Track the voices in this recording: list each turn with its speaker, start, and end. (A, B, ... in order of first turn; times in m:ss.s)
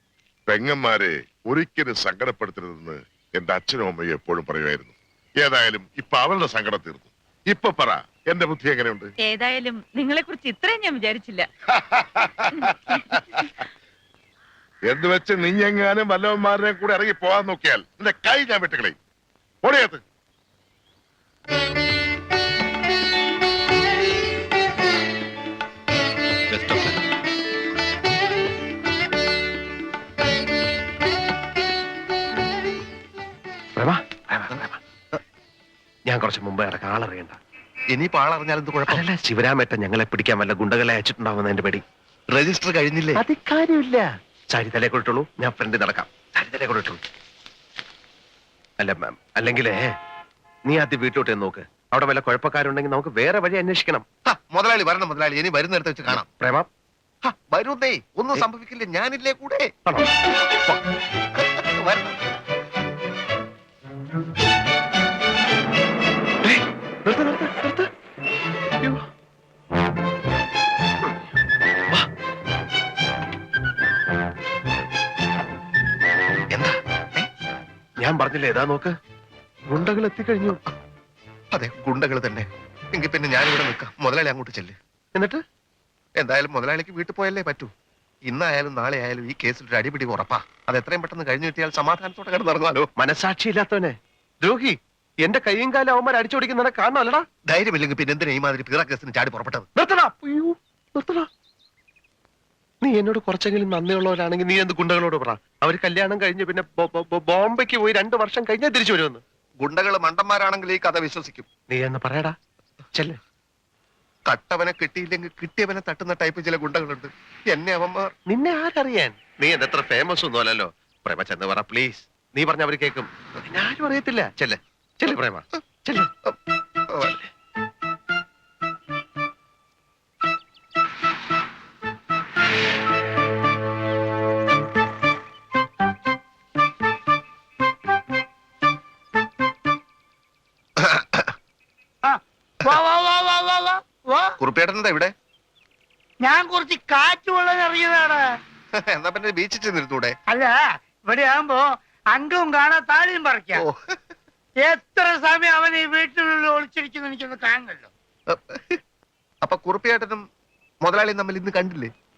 0:00.5-0:09.1 A
0:09.2-0:11.5 B
0:11.8-0:13.2 A
0:12.6-0:13.2 B
0:14.9-0:18.9 A
0:19.6-0:20.0 A
0:26.6-0:26.9 C
0:33.7-0:34.8 C
0:36.1-0:37.4 C
0:37.9-0:39.0 D
0:38.9-0:41.8 C
0:42.3-0:43.2 D
0:43.2-0:47.0 C
0:48.8-0:50.0 C
0:50.6-0:54.0 C
0:54.2-0:56.3 D
0:56.1-0:56.7 C
0:57.2-0:59.7 D
0:59.8-1:00.8 C
1:01.4-1:02.2 D
1:06.4-1:07.9 C
1:08.8-1:09.0 C
1:16.5-1:17.3 D
1:18.0-1:19.0 C
1:19.7-1:20.6 C
1:21.5-1:24.8 D
1:25.1-1:25.4 C
1:26.2-1:27.7 D
1:28.3-1:32.9 D
1:33.0-1:37.2 C
1:37.4-1:39.7 D
1:39.8-1:41.3 C
1:42.8-1:49.2 C
1:49.6-1:51.5 D
1:51.7-1:52.4 C
1:54.3-1:58.1 D
1:58.3-2:06.1 C
2:07.0-2:07.3 C
2:20.8-2:21.3 D
2:22.0-2:24.3 E
2:24.4-2:25.1 D
2:26.2-2:28.2 E
2:28.7-2:30.1 D
2:30.3-2:30.5 E
2:31.0-2:33.6 E
2:33.6-2:34.0 D
2:34.6-2:37.9 E
2:38.3-2:38.8 D
2:39.4-2:40.2 D
2:40.8-2:41.9 D